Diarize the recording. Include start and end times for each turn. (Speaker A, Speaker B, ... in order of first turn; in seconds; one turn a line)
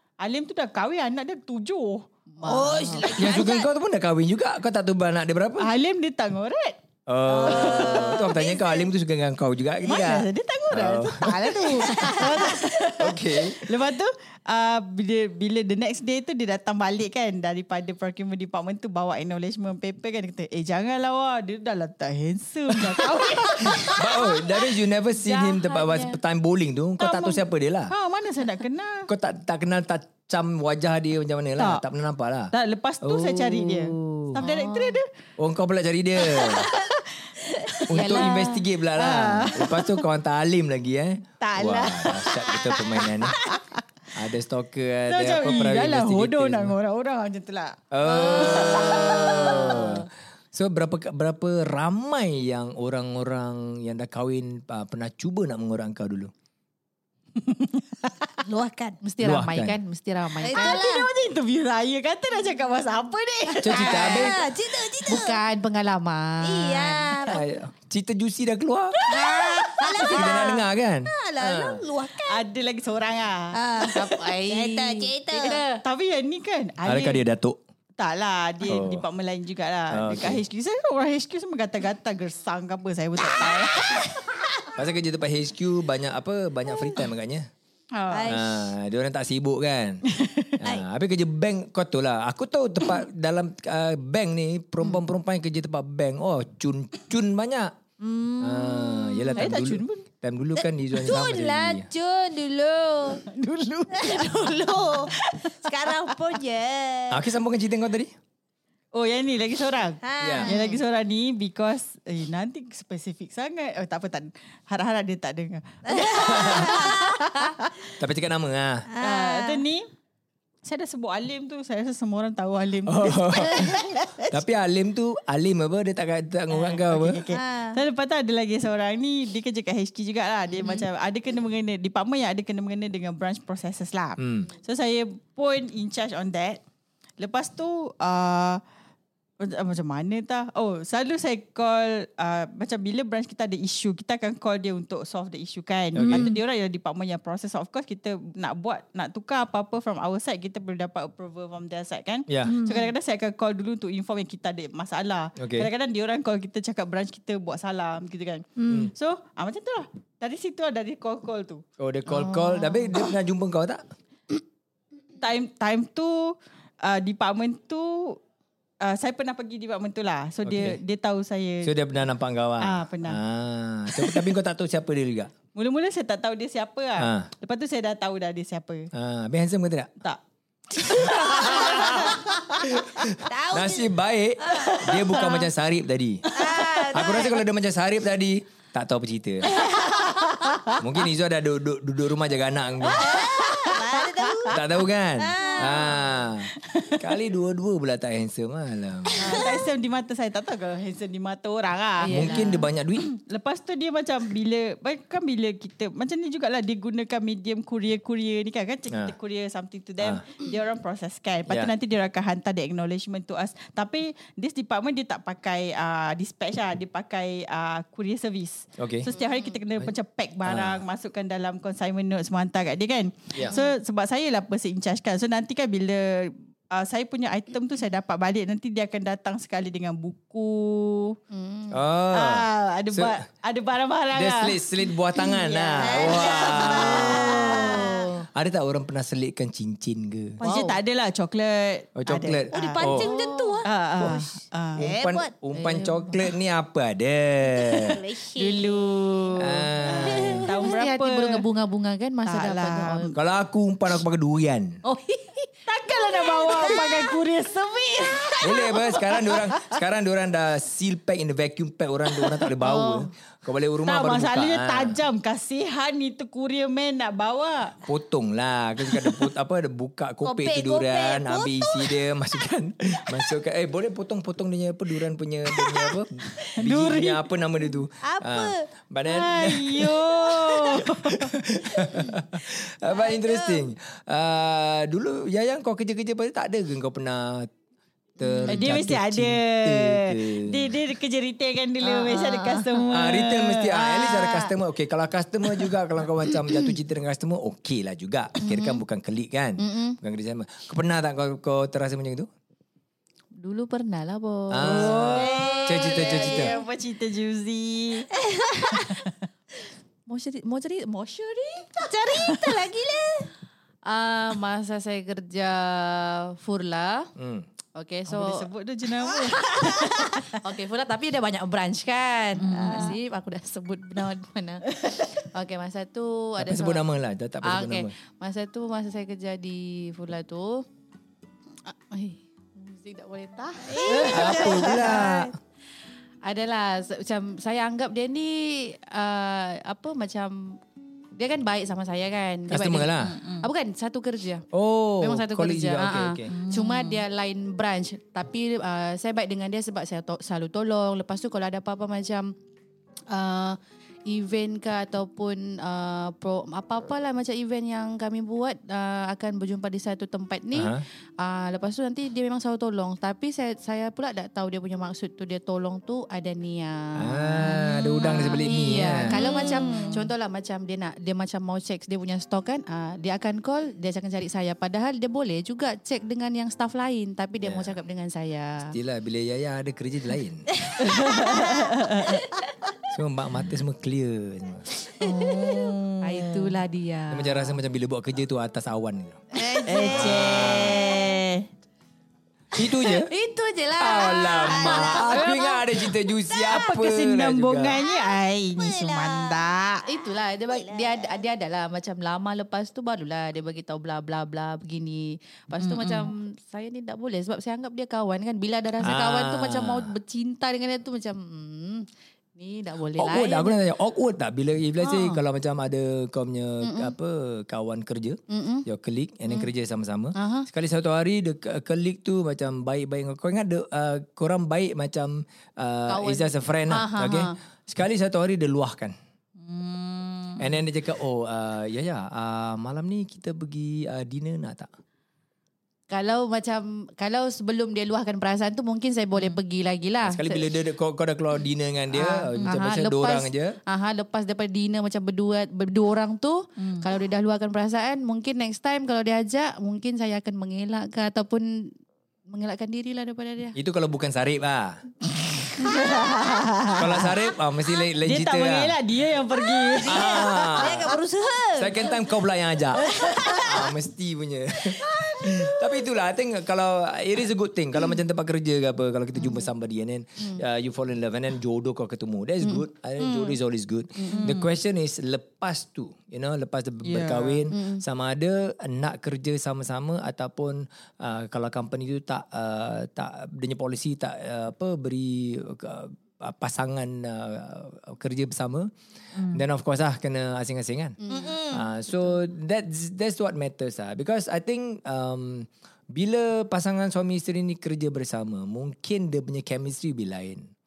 Speaker A: 0.2-2.0
Speaker B: 2.4-3.1
Speaker C: 2.4-3.7
Speaker D: 3.2-5.7
Speaker A: 5.6-6.8
Speaker D: 7.1-12.3
Speaker C: 7.3-8.6
Speaker A: 7.3-8.8
Speaker A: 9.8-24.7
Speaker D: 13.0-13.8
Speaker D: 22.7-27.9
Speaker B: 25.1-26.2
Speaker A: 27.0-29.1
Speaker D: 29.1-34.4
Speaker A: 32.5-35.1
Speaker B: 34.4-35.0
Speaker D: 35.4-36.7
Speaker A: 36.2-38.3
Speaker D: 37.9-43.4
Speaker B: 37.9-38.6
Speaker A: 38.9-40.0
Speaker A: 41.4-43.8
Speaker D: 44.1-46.8
Speaker A: 45.1-50.0
Speaker D: 47.9-56.3
Speaker C: 48.5-49.4
Speaker A: 57.3-58.3
Speaker C: 58.4-59.0
Speaker B: 59.0-60.8
Speaker D: 59.2-59.8
Speaker C: 60.4-61.1
Speaker A: 60.5-64.3
Speaker D: 63.6-64.4
Speaker C: 63.7-65.4
Speaker B: 65.0-67.3
Speaker C: 66.4-67.4
Speaker D: 67.2-69.0
Speaker A: 69.1-70.3
Speaker C: 69.1-72.4
Speaker D: 70.0-71.8
Speaker A: 72.2-73.6
Speaker C: 73.5-75.6
Speaker B: 73.9-75.8
Speaker A: 75.8-77.2
Speaker D: 76.8-77.6
Speaker A: 78.0-84.1
Speaker D: 78.7-79.0
Speaker D: 79.9-80.4
Speaker C: 83.4-84.2
Speaker D: 84.8-87.5
Speaker A: 87.9-88.4
Speaker C: 88.1-88.7
Speaker D: 88.2-90.0
Speaker A: 90.1-90.5
Speaker D: 90.6-97.8
Speaker C: 98.0-99.4
Speaker D: 98.4-101.9
Speaker A: 99.3-100.1
Speaker C: 100.9-103.2
Speaker A: 103.2-106.2
Speaker C: 103.9-107.2
Speaker D: 107.1-108.1
Speaker A: 108.9-117.9
Speaker C: 110.0-110.8
Speaker D: 110.2-110.5
Speaker C: 115.8-117.5
Speaker D: 116.3-116.7
Speaker D: 118.0-118.9
Speaker C: 118.9-119.6
Speaker A: 119.0-119.9
Speaker A: 120.6-124.4
Speaker D: 122.8-127.2
Speaker A: 126.5-136.6
Speaker C: 127.3-127.8
Speaker C: 130.6-130.8
Speaker D: 134.2-134.5
Speaker A: 137.2-138.6
Speaker A: 139.4-161.6
Speaker D: 145.9-146.3
Speaker C: 146.1-146.4
Speaker D: 152.3-152.6
Speaker C: 152.4-152.9
Speaker D: 155.4-155.7
Speaker C: 158.6-158.9
Speaker D: 161.8-163.8
Speaker B: 162.2-162.8
Speaker A: 165.2-168.2
Speaker A: 168.8-171.7
Speaker D: 170.4-170.8
Speaker D: 171.6-175.3
Speaker A: 172.6-173.2
Speaker A: 175.5-178.9
Speaker D: 177.0-177.3
Speaker D: 178.9-179.9
Speaker A: 180.7-182.6
Speaker D: 180.9-189.6
Speaker C: 181.3-181.9
Speaker C: 183.2-185.4
Speaker A: 184.7-185.4
Speaker C: 186.3-187.4
Speaker A: 186.4-187.3
Speaker C: 189.5-190.3
Speaker A: 189.6-190.8
Speaker D: 190.8-193.2
Speaker A: 192.8-194.6
Speaker C: 192.9-194.6
Speaker D: 194.5-199.4
Speaker C: 195.2-196.1
Speaker A: 196.6-197.0
Speaker C: 199.2-199.7
Speaker A: 199.2-231.2
Speaker B: 202.0-202.7
Speaker D: 202.1-203.1
Speaker D: 208.9-209.1
Speaker D: 211.5-211.7
Speaker D: 218.8-219.1
Speaker D: 220.4-220.8
Speaker D: 223.3-223.6
Speaker B: 231.3-231.8
Speaker D: 231.7-233.2
Speaker A: 232.1-234.6
Speaker D: 234.1-240.4
Speaker A: 235.1-238.1
Speaker C: 235.8-238.0
Speaker B: 237.7-238.2
Speaker B: 240.4-240.8
Speaker A: 240.4-242.8
Speaker D: 242.0-243.1
Speaker C: 242.5-243.7
Speaker B: 243.0-243.6
Speaker A: 243.6-244.8
Speaker D: 244.0-244.2
Speaker C: 244.8-245.3
Speaker D: 244.8-248.0
Speaker B: 245.5-246.3
Speaker C: 247.6-249.1
Speaker A: 248.3-251.4
Speaker D: 249.4-250.5
Speaker C: 250.0-250.5
Speaker B: 250.5-253.2
Speaker A: 252.2-253.1
Speaker D: 253.1-254.8
Speaker B: 254.8-257.0
Speaker A: 255.7-259.7
Speaker C: 256.4-257.0
Speaker D: 258.4-265.0
Speaker B: 262.6-263.1
Speaker A: 263.9-267.8
Speaker D: 267.8-287.5
Speaker C: 270.2-272.0
Speaker A: 276.4-277.2
Speaker C: 278.0-278.6
Speaker A: 279.0-281.3
Speaker C: 282.9-283.6
Speaker B: 288.2-288.8
Speaker D: 288.2-290.8
Speaker A: 288.5-294.5
Speaker B: 291.8-293.0
Speaker D: 292.9-302.3
Speaker B: 298.4-298.8
Speaker B: 299.6-300.0
Speaker B: 303.4-305.1
Speaker D: 304.5-306.6
Speaker A: 304.6-308.1
Speaker C: 305.1-306.6
Speaker C: 308.1-309.0
Speaker A: 308.7-309.1
Speaker B: 310.1-311.8
Speaker C: 311.8-313.3
Speaker A: 312.2-312.5
Speaker B: 313.9-317.1
Speaker D: 317.1-317.5
Speaker B: 317.7-318.4
Speaker A: 318.1-320.2
Speaker B: 319.2-326.8
Speaker A: 322.4-323.0
Speaker C: 322.5-323.0
Speaker D: 326.4-327.9
Speaker B: 327.4-330.6
Speaker B: 331.7-335.3
Speaker C: 333.7-335.2
Speaker D: 333.9-335.3
Speaker B: 336.2-340.6
Speaker B: 341.1-344.4
Speaker D: 342.5-343.2
Speaker A: 343.0-343.5
Speaker D: 344.5-346.4
Speaker B: 345.0-352.3
Speaker A: 346.3-347.0
Speaker B: 353.1-378.7
Speaker D: 360.5-360.8
Speaker D: 367.0-369.2
Speaker C: 369.1-370.0
Speaker D: 377.4-377.7
Speaker D: 378.6-380.5
Speaker C: 380.6-381.9
Speaker A: 380.8-382.2
Speaker D: 382.9-384.6
Speaker A: 385.0-386.6
Speaker B: 386.0-387.6
Speaker D: 387.1-389.2
Speaker B: 389.4-390.1
Speaker C: 389.4-391.1
Speaker A: 389.6-391.5
Speaker D: 389.9-390.9
Speaker D: 392.5-393.1
Speaker B: 392.6-395.3
Speaker D: 393.8-397.8
Speaker C: 394.4-395.4
Speaker A: 395.1-395.5
Speaker C: 396.3-396.7
Speaker A: 396.5-399.8
Speaker C: 397.8-399.5
Speaker B: 399.9-413.6
Speaker C: 400.5-401.0
Speaker A: 405.6-406.1
Speaker D: 408.8-409.9
Speaker D: 413.0-428.9
Speaker B: 414.8-415.2
Speaker B: 416.6-416.9
Speaker B: 418.3-418.6
Speaker B: 420.1-420.5
Speaker B: 425.9-427.3
Speaker A: 429.4-430.5
Speaker D: 430.4-434.7
Speaker B: 435.9-440.4
Speaker D: 440.0-443.6
Speaker B: 441.9-451.5
Speaker A: 446.6-446.8
Speaker B: 452.3-453.6
Speaker D: 453.6-454.8
Speaker A: 455.3-457.1
Speaker D: 456.7-458.8
Speaker A: 458.0-461.0
Speaker C: 459.3-462.0
Speaker D: 459.8-460.9
Speaker D: 461.5-488.7
Speaker A: 462.8-463.6
Speaker C: 462.9-463.7
Speaker A: 464.8-465.5
Speaker C: 473.0-473.4
Speaker B: 474.0-474.2
Speaker A: 474.1-474.5
Speaker A: 476.8-477.5
Speaker B: 477.5-477.8
Speaker A: 489.1-489.4
Speaker D: 489.2-500.5
Speaker B: 491.0-491.4
Speaker C: 491.1-491.6